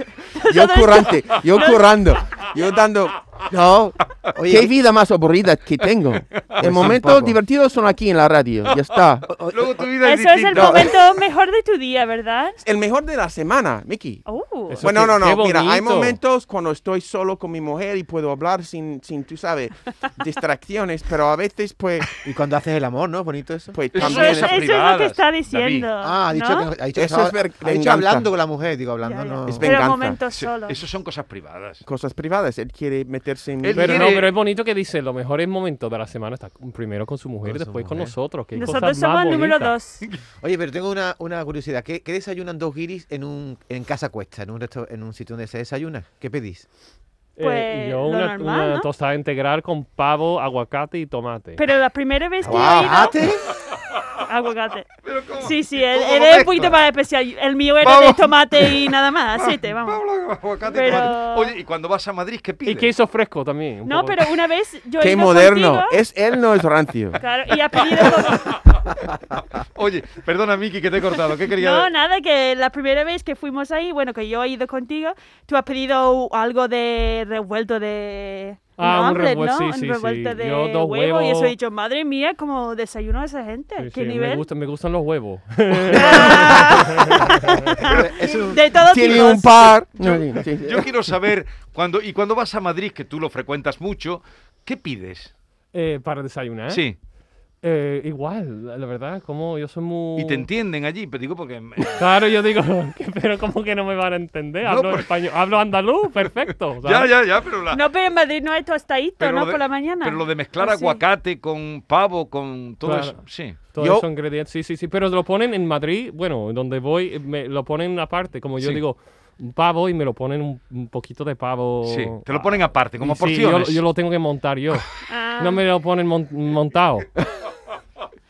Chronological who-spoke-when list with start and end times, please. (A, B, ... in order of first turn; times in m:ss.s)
0:00.3-0:02.4 A
0:00.5-0:09.3 B
0:04.3-0:04.7 C
0:06.6-0:07.4 C
0:08.7-0:11.0 D
0:09.3-0:09.8 C
0:10.0-0:12.6 A
0:10.5-0:10.9 B
0:12.6-0:14.2 B
0:14.2-0:14.8 A
0:14.7-0:16.2 E
0:14.8-0:22.1 B
0:22.2-0:23.8 C
0:23.7-0:24.6 B
0:23.9-0:25.9 D
0:24.0-0:26.7 A
0:26.0-0:29.8 C
0:26.9-0:28.3 B
0:29.0-0:30.8 A
0:29.5-0:30.2 B
0:30.3-0:31.8 D
0:31.8-0:34.2 B
0:33.6-0:34.3 D
0:33.8-0:39.7 E
0:37.4-0:38.2 C
0:38.6-0:40.0 A
0:40.4-0:46.6 C
0:47.4-0:51.6 E
0:47.4-0:48.9 A
0:51.6-0:53.2 A
0:52.4-0:53.5 C
0:52.5-0:53.0 B
0:54.2-1:00.0 A
0:55.0-0:56.8 D
0:57.8-1:02.9 D
1:00.7-1:01.6 A
1:02.6-1:04.2 E
1:03.8-1:06.0 A
1:05.0-1:07.2 B
1:07.2-1:08.6 A
1:07.8-1:11.9 D
1:11.6-1:24.5 A
1:18.8-1:21.5 E
1:23.8-1:27.6 E
1:25.9-1:30.2 A
1:27.8-1:28.7 C
1:28.8-1:30.9 B
1:30.6-1:35.3 D
1:35.7-1:36.8 E
1:36.7-1:37.0 D
1:37.6-1:40.5 E
1:40.2-1:42.1 D
1:41.9-1:47.1 E
1:44.6-1:45.1 D
1:46.8-1:47.8 D
1:47.7-1:51.0 A
1:49.2-1:53.6 D
1:52.8-2:04.9 E
1:53.8-1:54.1 B
2:01.8-2:03.8 D
2:05.1-2:05.6 A
2:05.4-2:07.1 E